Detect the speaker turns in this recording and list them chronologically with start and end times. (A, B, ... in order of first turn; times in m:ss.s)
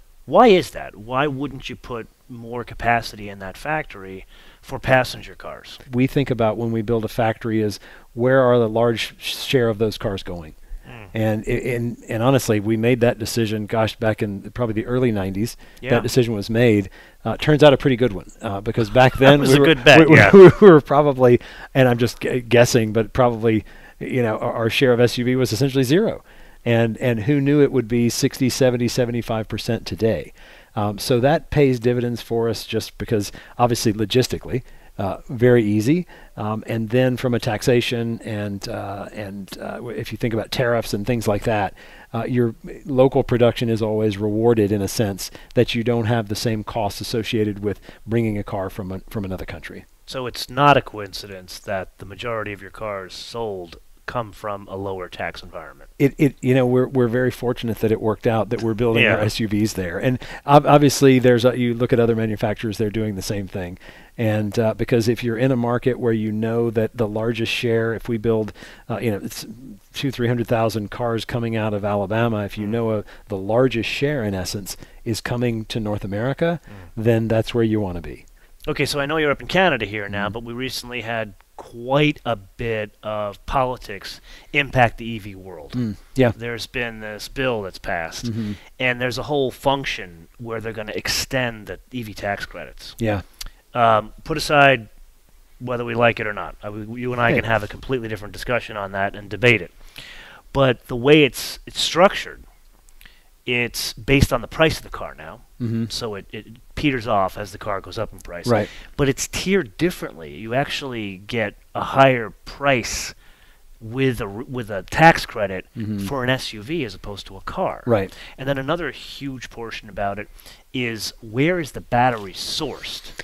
0:00.3-0:05.8 A
0:05.9-0:10.6 B
0:10.9-0:11.1 A
0:11.1-0:49.8 B
0:15.8-0:16.1 A
0:19.2-0:20.4 A
0:50.1-0:55.9 A
0:56.0-1:18.2 B
0:58.9-0:59.3 A
1:18.7-1:25.8 A
1:25.8-1:26.4 B
1:26.3-1:33.0 A
1:28.2-1:28.6 B
1:33.0-1:33.2 B
1:33.7-1:34.9 A
1:35.6-1:42.4 A
1:43.5-1:53.2 A
1:45.6-1:45.9 B
1:48.4-1:48.7 B
1:53.8-2:03.2 A
1:55.8-1:56.1 B
1:57.9-1:58.1 B